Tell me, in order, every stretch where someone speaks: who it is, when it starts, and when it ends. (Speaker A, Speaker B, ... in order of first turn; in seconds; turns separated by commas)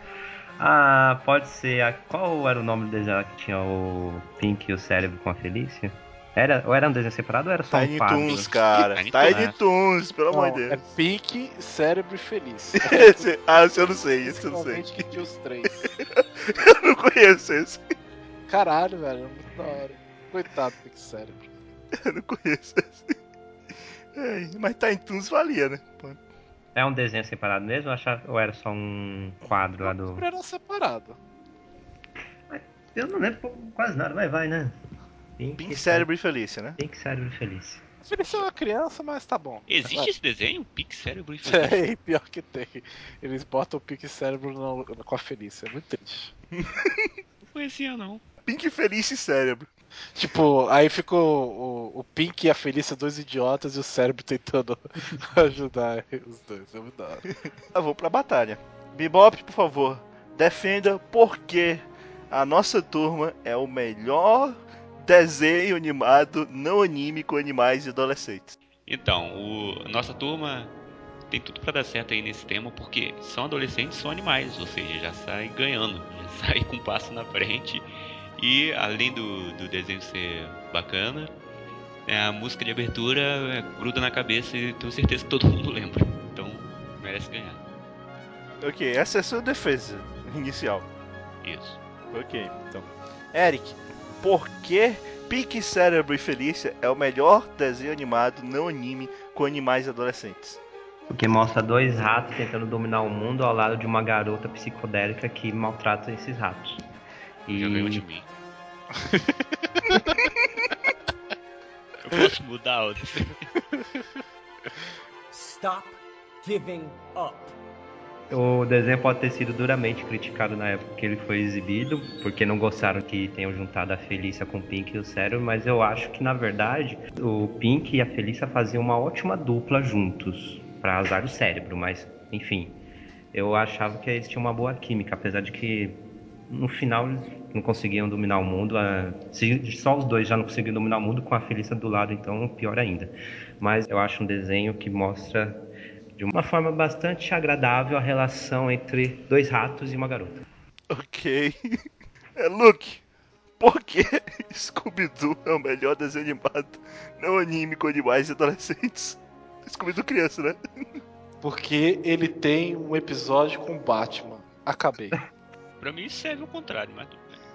Speaker A: 0.6-8.5, Speaker B: 7.7-10.8, Speaker C: 8.3-9.6, Speaker D: 10.3-13.3, Speaker B: 12.7-15.1, Speaker D: 14.2-15.9, Speaker B: 16.1-17.8, Speaker D: 18.5-21.5, Speaker B: 21.9-23.1, Speaker B: 24.1-26.2, Speaker A: 26.7-30.2, Speaker D: 29.8-31.2, Speaker A: 32.5-34.8, Speaker A: 35.4-36.1, Speaker B: 35.6-36.8, Speaker A: 36.8-37.8, Speaker D: 38.0-40.1, Speaker C: 39.7-41.9, Speaker D: 41.4-46.3, Speaker B: 46.6-47.1, Speaker C: 47.5-48.2, Speaker B: 48.5-49.7, Speaker D: 50.1-57.2, Speaker B: 57.7-68.5, Speaker C: 68.9-70.7, Speaker C: 71.3-77.9, Speaker C: 78.4-81.3, Speaker C: 82.0-87.6, Speaker B: 88.6-90.8, Speaker C: 91.4-91.8, Speaker B: 92.1-100.6, Speaker A: 101.1-106.8, Speaker A: 107.5-108.0, Speaker C: 107.5-108.3, Speaker D: 108.9-110.0, Speaker C: 112.0-113.4, Speaker D: 113.7-114.2, Speaker E: 115.3-117.5, Speaker A: 118.3-132.8, Speaker A: 133.3-136.0, Speaker A: 136.5-145.6, Speaker A: 146.2-150.4, Speaker B: 150.9-151.6, Speaker B: 152.4-153.0, Speaker B: 153.6-160.6, Speaker D: 161.4-165.2, Speaker C: 165.8-167.4